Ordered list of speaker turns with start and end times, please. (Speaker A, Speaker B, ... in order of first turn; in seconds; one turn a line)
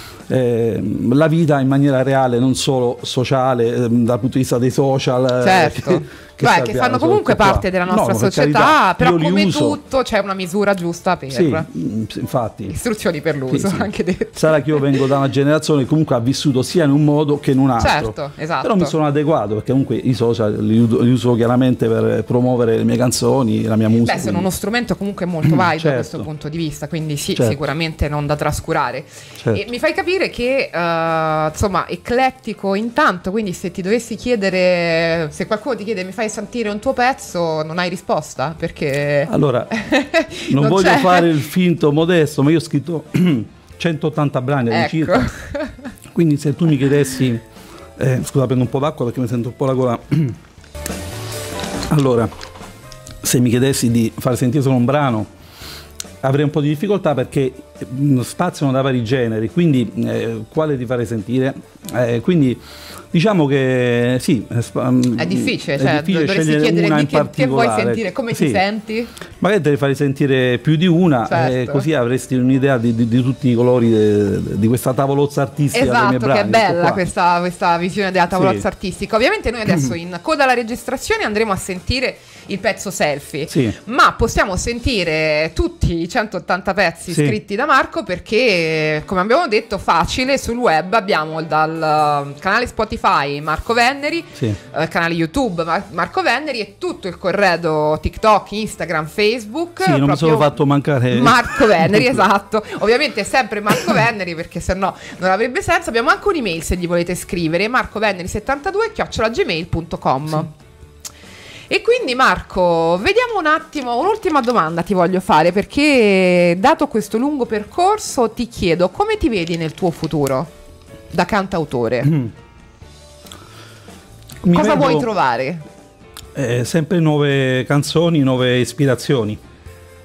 Speaker A: 0.3-9.8
Speaker B: 5.4-11.7
Speaker A: 11.3-12.8
Speaker B: 12.7-15.0
Speaker A: 13.5-24.5
Speaker B: 17.8-18.9
Speaker B: 24.0-41.4
Speaker A: 25.4-26.3
Speaker A: 39.3-39.7
Speaker A: 40.5-45.3
Speaker B: 44.7-45.9
Speaker A: 46.1-47.4
Speaker A: 48.0-50.4
Speaker A: 51.9-52.3
Speaker A: 53.2-55.3
Speaker A: 56.2-68.6
Speaker B: 65.2-69.1
Speaker A: 69.4-77.0
Speaker B: 71.3-71.9
Speaker B: 75.7-110.5
Speaker A: 78.3-78.7
Speaker A: 83.5-83.8
Speaker A: 87.1-87.4
Speaker A: 99.8-102.2
Speaker B: 111.7-120.5
Speaker B: 121.1-122.2
Speaker A: 124.4-125.1
Speaker B: 124.5-125.7
Speaker A: 126.3-129.4